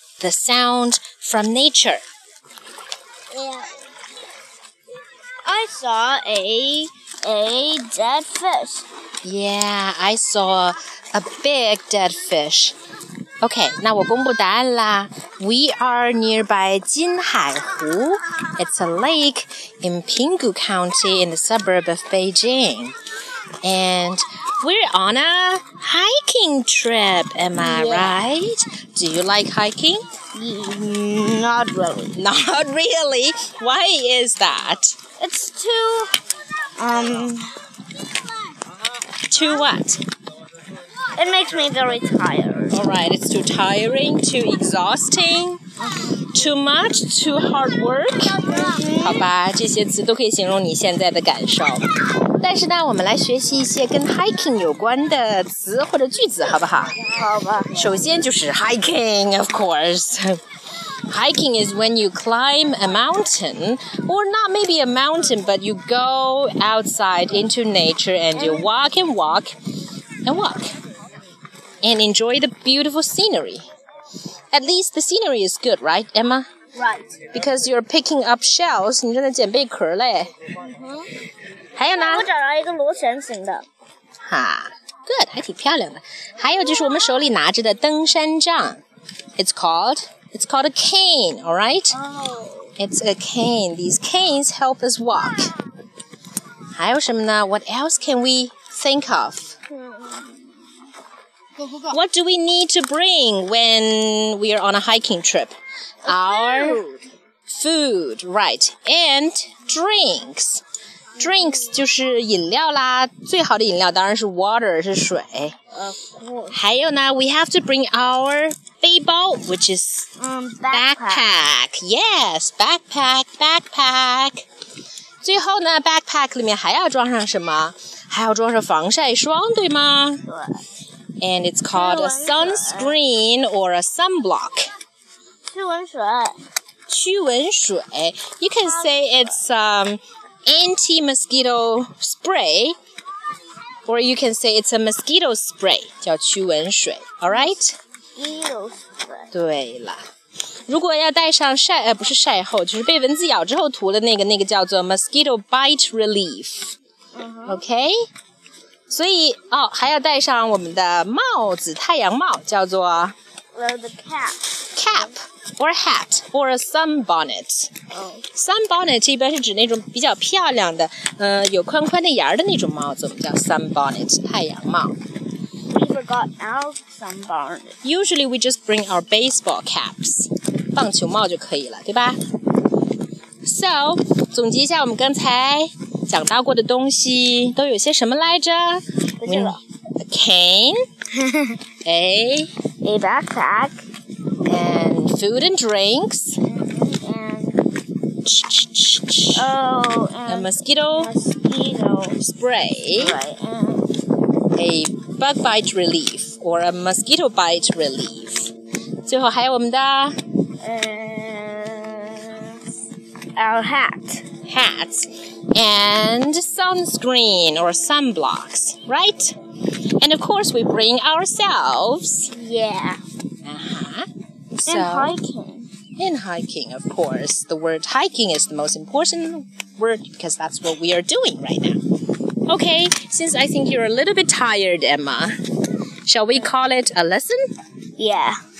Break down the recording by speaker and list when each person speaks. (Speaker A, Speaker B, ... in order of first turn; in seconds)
Speaker A: 0.2-2.0, 9.2-12.8, 13.4-23.0, 23.6-30.0, 32.1-35.0, 39.2-40.0, 42.7-57.0, 57.8-60.4, 61.1-69.5, 70.2-70.7, 71.8-73.6, 74.5-76.5, 77.3-80.3, 81.8-82.3, 84.3-88.8, 89.4-92.0, 92.8-95.6, 96.8-99.6, 101.9-106.8, 107.5-110.6, 111.2-115.6, 116.5-120.1, 120.7-124.5, 125.2-130.2, 131.2-134.7, 136.9-142.8, 143.9-147.8, 149.3-150.0, 150.7-156.8, 157.5-158.0, 158.9-163.2, 164.8-167.7, 168.3-175.0, 177.8-182.2, 183.4-190.8, 191.8-192.5, 194.4-196.4, 198.2-199.5, 200.3-201.1, 202.2-203.2, 204.5-208.5, 209.1-210.1, 214.5-219.4, 220.0-222.3, 223.4-225.2, 226.0-231.8, 232.5-235.3, 236.1-237.4
Speaker B: 3.3-3.7, 5.5-8.9, 27.6-28.2, 30.4-32.2, 35.2-36.1, 36.8-37.5, 41.1-42.8, 48.5-49.2, 57.0-57.8, 68.4-68.7, 76.8-77.2, 80.6-81.1, 81.9-83.7, 91.9-92.7, 99.7-100.7, 106.1-107.0, 115.8-116.6, 120.2-121.3, 130.3-130.6, 131.7-133.0, 135.5-136.4, 138.7-139.4, 147.3-147.6, 148.2-149.3, 157.1-157.6, 163.6-165.1, 167.9-168.3, 175.7-177.8, 189.2-189.6, 191.2-191.6, 192.8-193.8, 196.4-197.6, 199.3-202.2, 203.0-203.9, 210.6-212.6, 213.4-214.3, 222.3-223.0, 224.7-225.7, 238.0-238.4